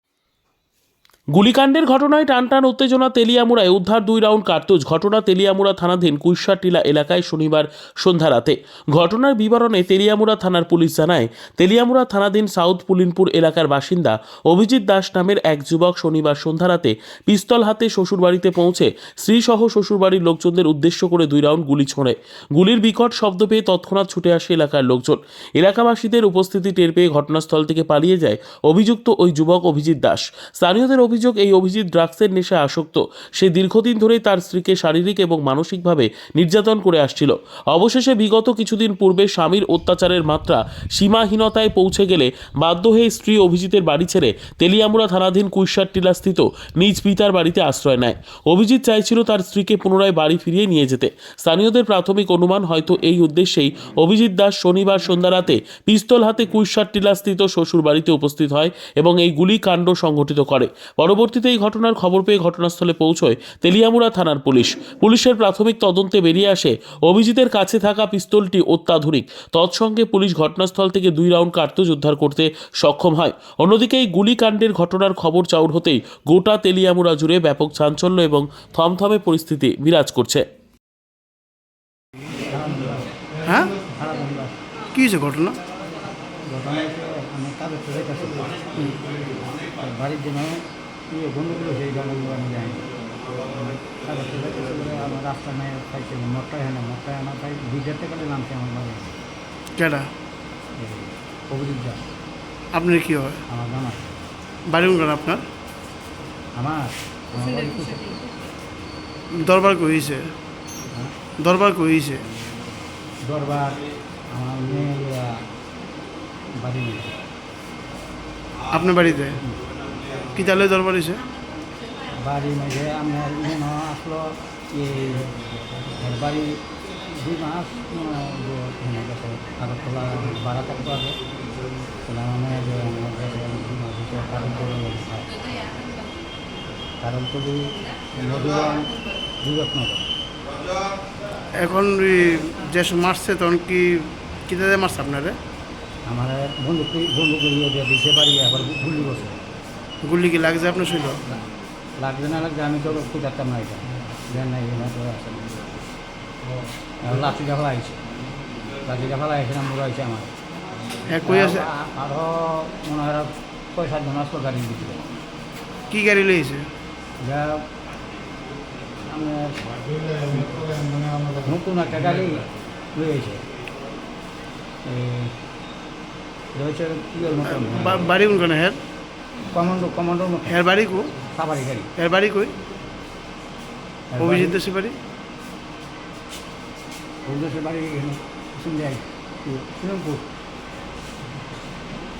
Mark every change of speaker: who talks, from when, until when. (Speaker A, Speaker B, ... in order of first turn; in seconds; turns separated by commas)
Speaker A: 1.3-80.4, Speaker B: 82.5-83.1, Speaker C: 83.4-83.7, Speaker B: 83.9-84.5, Speaker C: 84.9-85.6, Speaker B: 86.4-89.0, Speaker B: 89.7-99.1, Speaker C: 99.8-100.1, Speaker B: 100.8-102.0, Speaker C: 102.7-103.4, Speaker B: 103.5-104.0, Speaker C: 104.7-105.4, Speaker B: 106.5-108.1, Speaker C: 109.3-110.3, Speaker C: 111.4-112.2, Speaker B: 113.3-115.4, Speaker B: 116.6-117.2, Speaker C: 118.7-119.4, Speaker C: 120.3-121.2, Speaker B: 122.1-131.2, Speaker B: 132.1-135.4, Speaker B: 137.0-138.9, Speaker B: 139.4-140.1, Speaker C: 141.6-145.4, Speaker B: 146.1-149.4, Speaker C: 150.0-151.2, Speaker B: 152.0-155.6, Speaker B: 157.0-158.0, Speaker B: 158.8-160.3, Speaker C: 161.1-161.7, Speaker B: 161.2-165.0, Speaker C: 165.9-166.7, Speaker B: 167.2-167.7, Speaker B: 169.1-169.5, Speaker B: 171.4-173.4, Speaker B: 174.8-175.3, Speaker B: 176.5-178.1, Speaker C: 177.5-178.8, Speaker B: 179.5-180.6, Speaker C: 180.5-181.1, Speaker B: 181.2-181.9, Speaker C: 182.0-182.5, Speaker B: 184.1-184.6, Speaker C: 184.2-185.0, Speaker B: 187.2-189.1, Speaker B: 189.6-190.2